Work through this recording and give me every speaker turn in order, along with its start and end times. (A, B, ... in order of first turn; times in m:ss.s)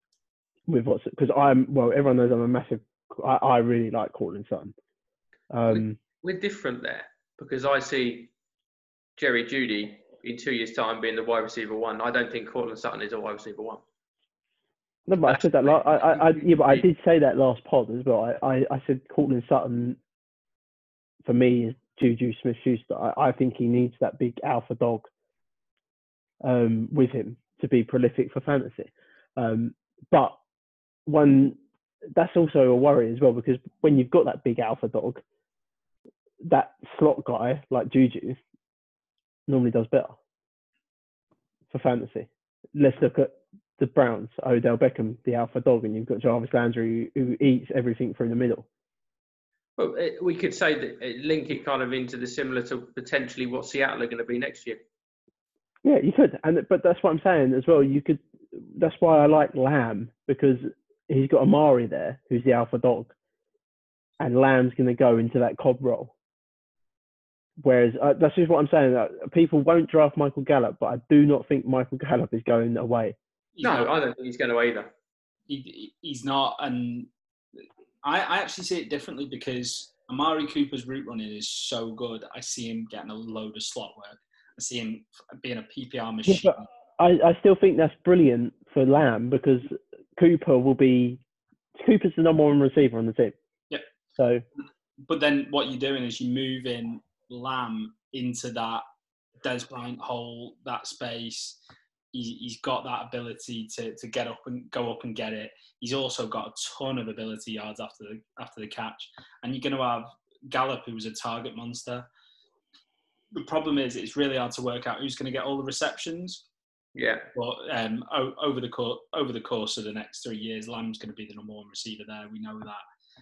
0:00.7-0:04.7 A
0:05.5-0:06.0 A
0:05.7-0:08.3 B
0:09.2-0:13.8 B
0:15.1-0:20.0 A
0:15.3-0:16.9 B
0:21.2-0:25.1 A
0:26.4-0:30.4 A
0:31.1-0:31.6 A
0:32.1-0:35.2 A
0:36.4-0:38.4 A
0:39.5-0:40.2 A
0:41.7-0:48.7 A
0:49.8-0:54.8 B
0:55.8-1:03.1 A
1:04.2-1:06.1 A
1:07.6-1:13.2 A
1:13.6-1:13.9 C
1:13.6-1:14.9 B
1:15.5-1:17.1 C
1:18.0-1:26.7 C
1:26.3-1:31.2 A
1:31.8-1:33.4 A
1:34.2-1:34.4 A
1:35.0-1:38.8 C
1:39.4-1:41.6 C
1:42.1-1:52.1 C
1:53.3-1:56.4 C
1:57.0-1:57.3 B
1:57.3-2:02.8 C